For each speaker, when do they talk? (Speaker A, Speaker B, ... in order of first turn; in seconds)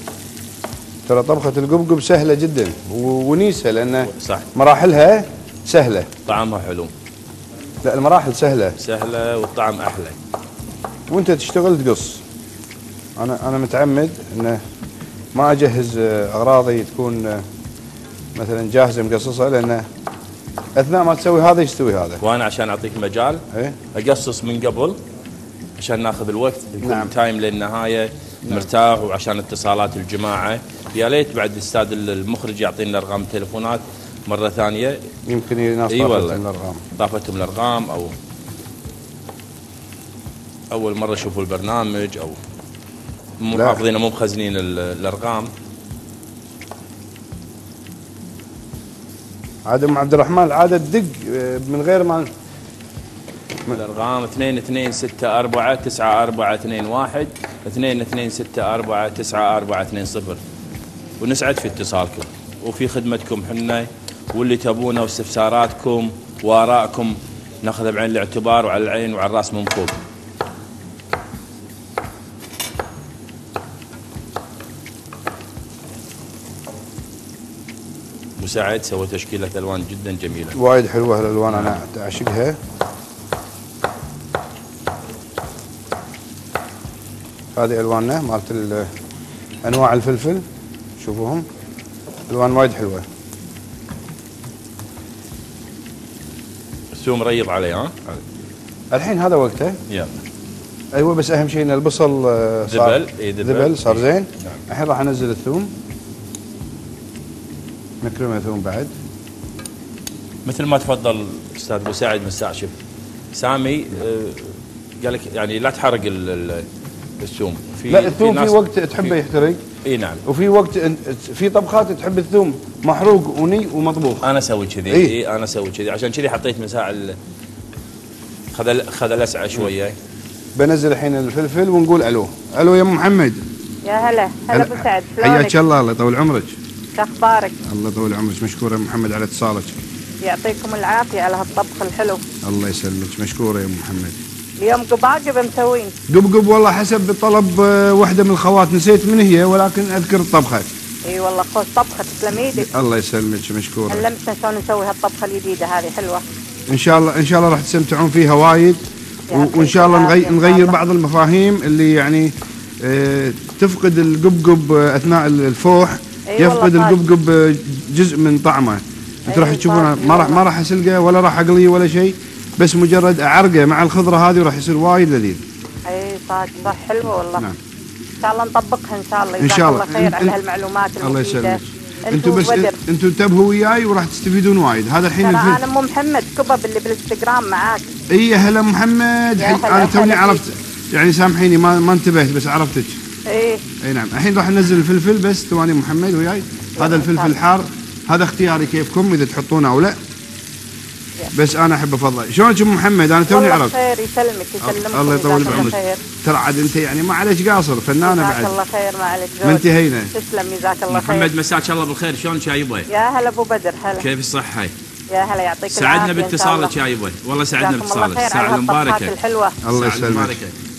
Speaker A: 1.1-6.1, 7.8-8.8, 11.1-12.2, 13.2-14.6, 15.3-17.4, 18.4-19.9, 20.8-22.2, 23.5-23.8, 26.8-27.1, 35.3-36.8, 43.5-43.8, 49.6-52.3, 80.5-82.6, 87.6-88.9, 89.6-90.5, 91.0-91.5, 92.3-93.1, 98.9-99.8, 100.9-105.7, 108.0-108.9, 117.9-119.6, 120.2-124.2, 124.9-125.1, 130.6-133.4, 134.5-136.6, 137.6-139.8, 142.4-144.2, 146.1-150.7, 152.6-154.1, 156.7-175.4, 179.4-180.4, 181.0-185.6, 188.1-193.0, 193.8-200.0, 201.3-203.8, 204.6-208.6, 209.4-210.1, 219.6-220.3
Speaker B: 4.0-4.5, 6.3-6.9, 8.8-10.2, 22.2-23.4, 23.9-25.0, 25.8-35.0, 35.9-36.4, 37.0-38.1, 40.7-42.4, 43.4-45.5, 53.7-60.4, 61.2-70.0, 78.4-80.6, 81.5-81.8, 96.9-98.0, 99.9-100.2, 102.6-104.6, 110.4-112.7, 113.3-116.7, 117.2-119.2, 119.8-120.2, 124.2-127.2, 128.5-129.9, 210.9-212.9, 214.0-214.7, 215.7-219.1, 219.7-220.6
Speaker C: 133.8-135.6, 137.0-137.6, 140.2-142.2, 144.6-145.9, 151.1-152.7, 153.9-156.2, 159.3-160.8, 166.3-167.0, 169.3-170.4, 175.9-177.4, 178.2-182.8, 185.2-187.9, 189.4-190.4, 193.3-193.6, 196.8-197.3, 203.3-206.0, 208.0-211.3, 212.9-214.1, 215.1-216.8, 217.6-219.6